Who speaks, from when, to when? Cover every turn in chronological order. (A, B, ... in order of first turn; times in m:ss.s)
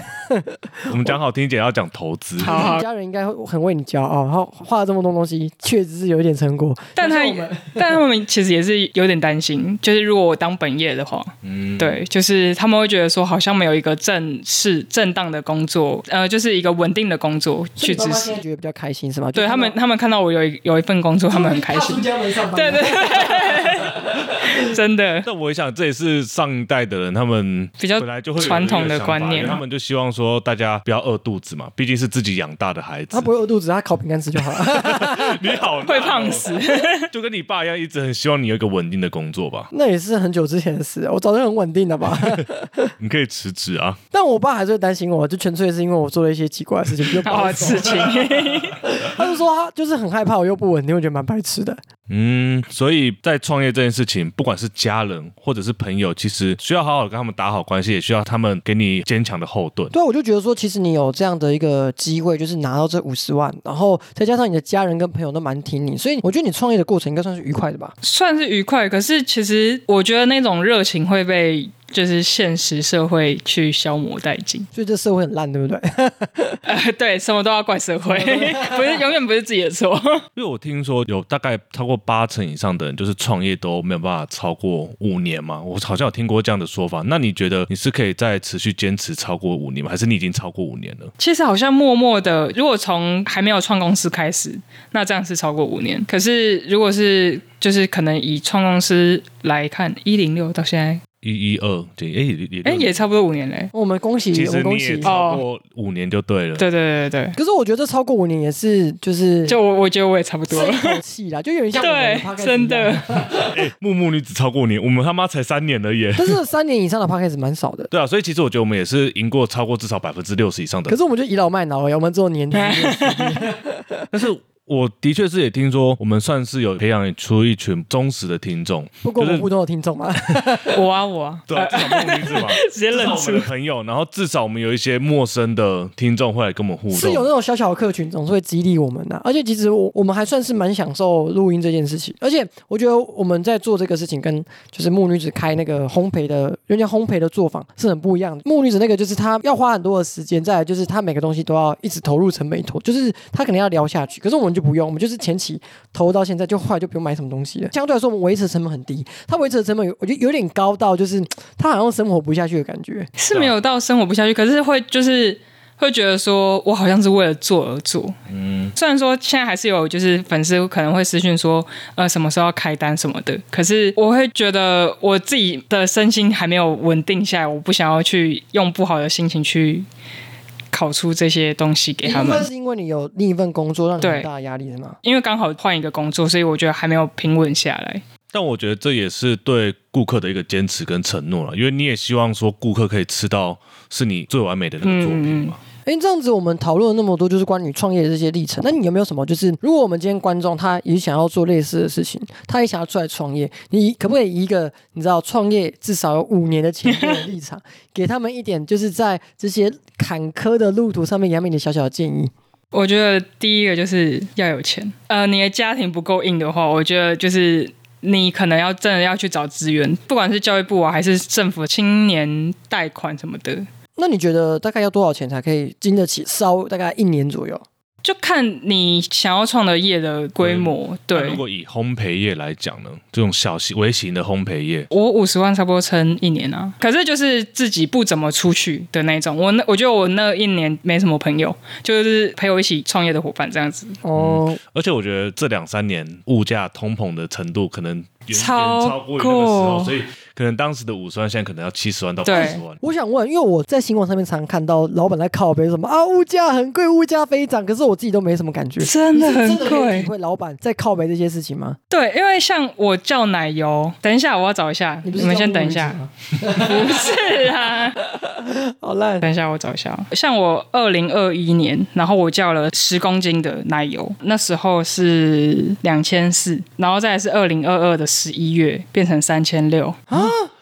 0:00.3-0:01.1 A
0:00.9-0:02.7 B
0:02.4-0:08.0 A
0:02.4-0:02.8 C
0:07.0-0:18.4 C
0:11.4-0:12.0 B
0:17.8-0:19.8 A
0:19.3-0:25.3 C
0:21.3-0:24.7 A
0:25.2-0:33.3 B
0:27.8-0:29.6 C
0:33.1-0:35.4 A
0:34.4-0:39.7 B
0:35.8-0:37.1 C
0:39.7-0:42.9 A
0:42.2-0:42.4 B
0:43.0-0:44.0 B
0:44.1-0:48.1 A
0:47.2-0:48.8 C
0:47.8-0:48.7 B
0:48.8-0:51.8 A
0:52.1-0:59.9 B
0:59.9-1:07.9 A
1:08.0-1:14.7 C
1:14.7-1:16.6 A
1:16.6-1:20.2 C
1:18.1-1:19.0 A
1:20.4-1:31.1 B
1:31.2-1:41.0 C
1:41.2-1:42.9 B
1:42.6-1:43.7 C
1:43.7-1:45.1 A
1:44.3-1:46.6 B
1:45.0-1:45.4 C
1:46.6-1:47.4 C
1:47.4-1:49.6 A
1:49.5-1:51.0 C
1:50.5-1:53.6 A
1:51.8-1:53.0 C
1:53.5-1:56.4 B
1:56.2-1:57.9 A
1:57.9-2:01.0 B
2:00.9-2:04.1 A
2:02.5-2:03.4 C
2:04.1-2:09.5 B
2:09.0-2:10.8 A
2:10.6-2:13.5 C
2:11.5-2:17.2 B
2:16.9-2:43.1 A
2:43.2-2:48.2 C
2:48.3-2:48.7 B
2:48.8-2:59.8 C
3:00.7-3:02.5 C
3:02.0-3:05.0 A
3:04.0-3:04.3 C
3:05.0-3:08.0 C
3:08.3-3:15.6 B
3:14.8-3:15.5 C
3:15.8-3:32.3 A
3:26.9-3:27.3 C
3:32.7-3:43.7 C
3:44.0-3:47.6 A
3:48.0-3:51.4 C
3:50.4-3:54.9 B
3:54.9-4:04.0 C
4:04.0-4:04.6 A
4:04.2-4:12.8 B
4:08.3-4:10.0 C
4:12.2-4:12.6 C
4:12.3-4:21.8 A
4:18.8-4:20.1 C
4:21.9-4:26.0 C
4:25.0-4:29.3 A
4:26.5-4:28.0 C
4:29.2-4:40.0 C
4:40.1-4:40.5 A